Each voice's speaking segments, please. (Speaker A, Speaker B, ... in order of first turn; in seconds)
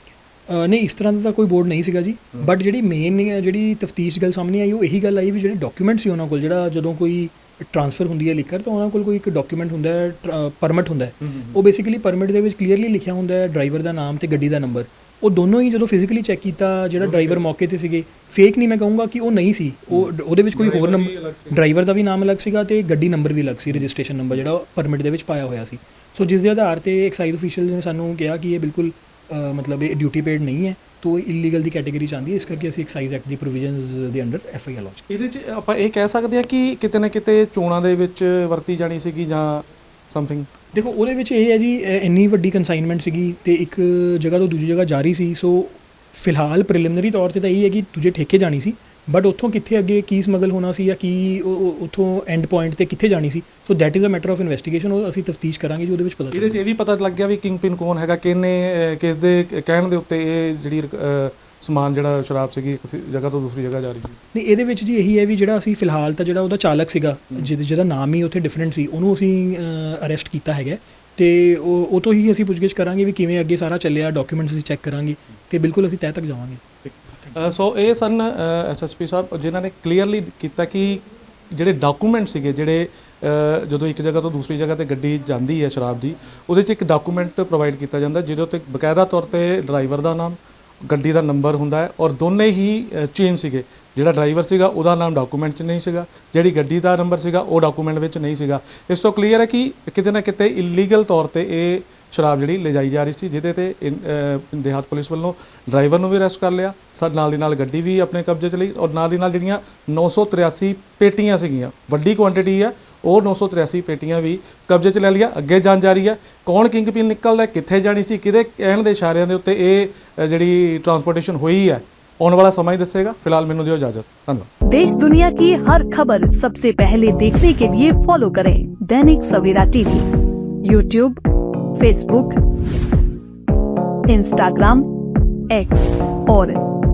Speaker A: 0.5-35.0, 40.7-56.6, 64.3-77.3
Speaker B: 11.3-11.5, 17.0-17.4, 19.9-21.6, 35.1-40.5, 56.3-64.2, 77.3-124.5
Speaker C: 124.7-130.1, 130.6-131.2, 131.8-132.4, 134.1-134.8, 135.5-136.6